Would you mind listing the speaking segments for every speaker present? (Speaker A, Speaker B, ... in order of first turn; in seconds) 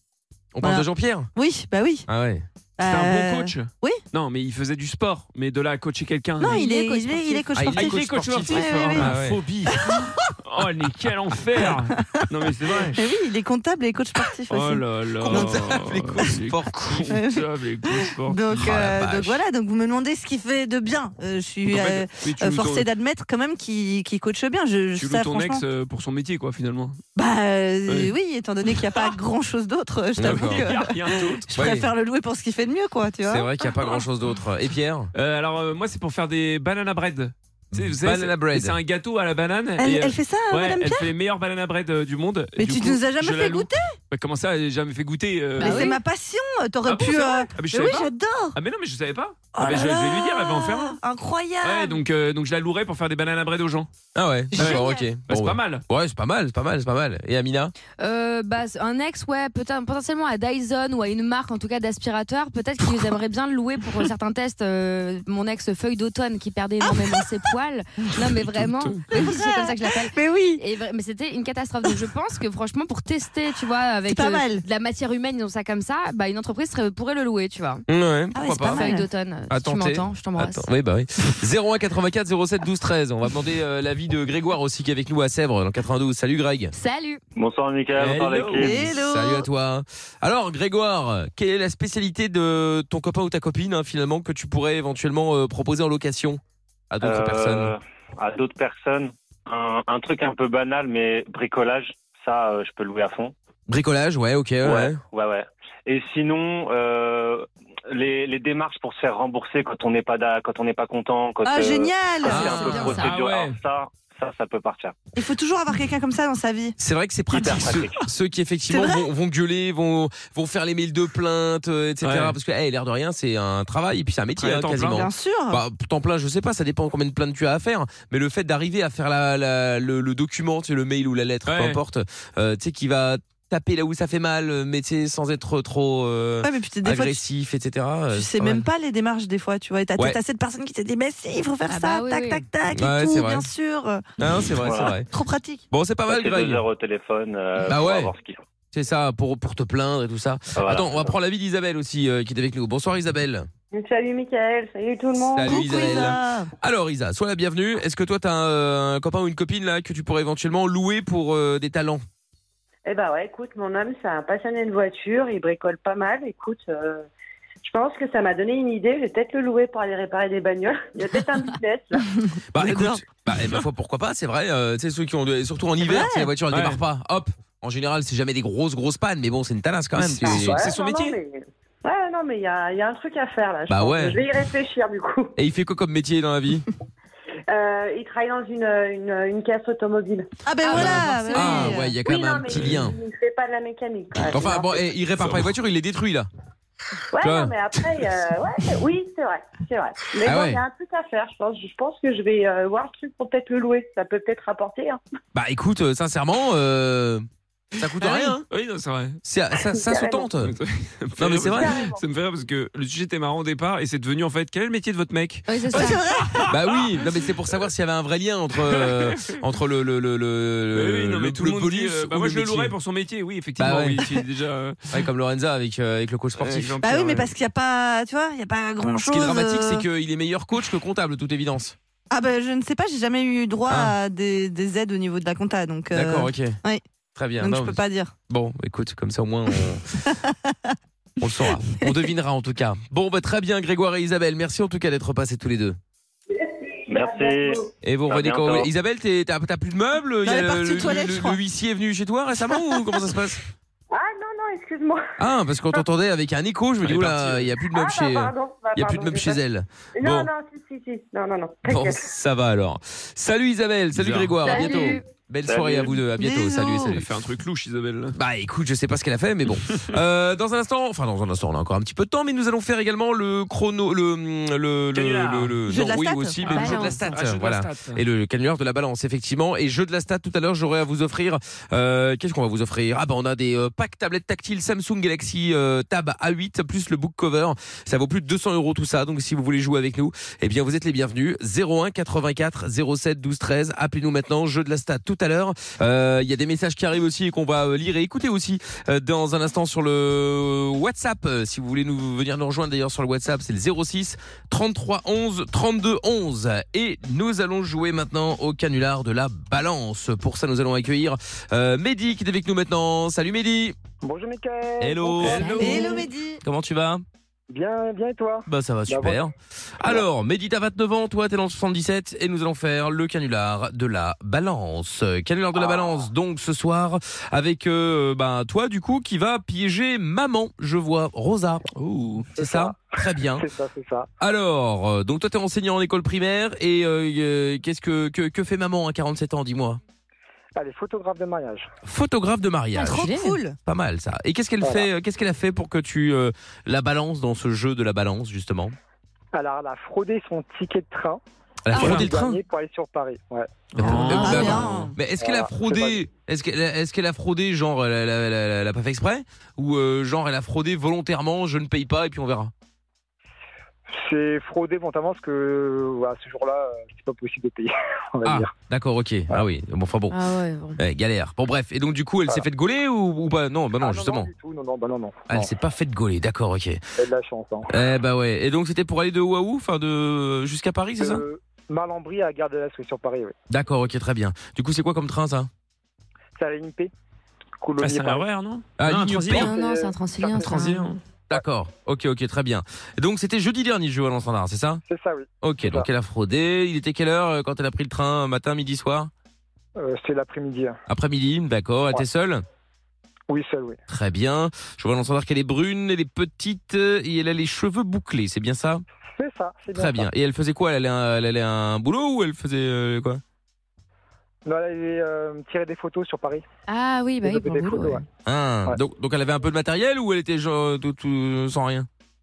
Speaker A: 0.5-1.3, 2.1-2.5, 7.5-9.8, 15.2-17.1, 18.5-19.4, 30.2-30.7, 31.5-31.9, 33.3-35.1, 37.8-38.8, 54.1-57.7, 77.9-78.9, 79.5-86.7, 87.9-97.8, 103.7-105.0, 112.2-113.0, 116.8-138.7, 142.7-143.5, 144.2-145.1, 145.7-146.7, 147.6-148.1, 148.7-153.5, 155.2-162.0, 172.5-180.7, 183.7-184.2, 185.4-186.7, 190.7-193.0, 194.3-196.3, 197.2-197.8, 200.2-200.6, 205.3-208.4, 209.2-210.5, 211.2-211.8, 216.5-222.7, 223.6-224.2, 224.9-226.8, 229.0-231.8, 233.7-233.9, 235.9-236.6, 237.2-240.1, 241.2-245.8, 247.8-253.4, 255.2-260.3, 261.7-267.1, 268.1-313.8, 314.8-317.0, 318.5-331.7, 332.3-333.4, 334.2-339.8, 341.8-343.1, 343.6-348.8, 351.7-352.4, 353.8-362.5, 368.2-370.2, 370.8-374.3, 375.3-376.8, 377.7-381.2, 383.5-385.5, 388.8-389.5, 391.3-394.8, 395.4-399.1, 400.9-402.4, 403.9-408.8, 409.8-413.2, 418.3-421.9
Speaker B: 0.6-2.1, 2.8-4.0, 6.4-10.2, 11.5-16.3, 17.1-25.7, 27.1-33.5, 39.8-41.1, 42.6-44.0, 45.6-48.6, 49.5-52.0, 54.5-55.1, 66.9-67.3, 69.1-70.6, 74.1-74.7, 78.3-79.1, 88.5-89.5, 111.4-113.0, 115.2-116.8, 118.7-119.1, 124.7-125.6, 136.4-137.2, 138.1-145.7, 155.4-156.5, 172.6-173.0, 175.8-176.3, 190.4-191.9, 215.7-216.5, 226.8-229.9, 232.1-236.8, 237.4-238.1, 240.1-240.8, 241.7-242.1, 250.2-251.4, 266.2-266.9, 275.7-277.1, 315.6-316.4, 342.8-343.6, 353.8-354.9
Speaker C: 2.8-13.1, 14.5-18.9, 21.7-22.9, 25.0-27.0, 27.9-28.1, 28.7-29.1, 30.2-31.7, 35.1-46.0, 46.8-51.0, 51.6-53.9, 54.5-55.8, 68.5-69.1, 112.3-113.6, 122.0-122.4, 124.4-125.0, 131.5-131.8, 176.5-176.8, 180.0-181.2, 195.2-195.5, 208.0-209.2, 210.4-217.6, 218.7-219.4, 220.7-224.9, 226.4-227.3, 256.8-257.6, 263.9-264.5, 266.6-268.2, 274.9-275.6, 276.8-278.0, 315.2-316.0, 331.7-332.3, 351.8-352.1, 353.8-354.8, 387.8-389.5, 390.4-391.0
Speaker D: 6.5-7.2, 45.6-46.0, 58.0-77.8, 78.7-80.7, 86.7-87.2, 112.7-112.9, 141.7-142.4, 215.5-216.0, 264.4-265.0, 276.4-277.0, 315.3-315.7, 342.8-343.4, 370.1-370.8, 389.3-391.0, 416.7-418.1
Speaker E: 87.3-88.9, 97.0-103.3, 104.6-115.0, 117.3-118.0, 144.6-144.9, 146.1-148.4, 150.6-151.1, 246.9-248.7, 265.5-265.9
Speaker F: 153.7-156.1, 162.9-167.1, 167.6-172.1, 180.2-185.3, 187.5-190.9, 191.6-194.8, 197.1-205.0, 209.7-210.3, 211.4-212.0, 246.3-247.7, 253.9-255.0, 257.7-259.4, 260.0-262.0
Speaker G: 314.0-316.0, 317.5-319.3, 325.6-326.0, 332.4-334.1, 340.6-341.7, 344.6-344.9, 349.3-351.2, 351.8-354.5, 355.2-356.0, 363.9-368.5, 373.8-375.5, 377.0-377.7, 381.0-383.4, 386.4-386.9, 387.6-388.3, 389.4-390.6, 394.9-395.9, 399.8-400.8, 403.3-403.8, 409.2-410.1, 414.4-416.4, 417.2-418.0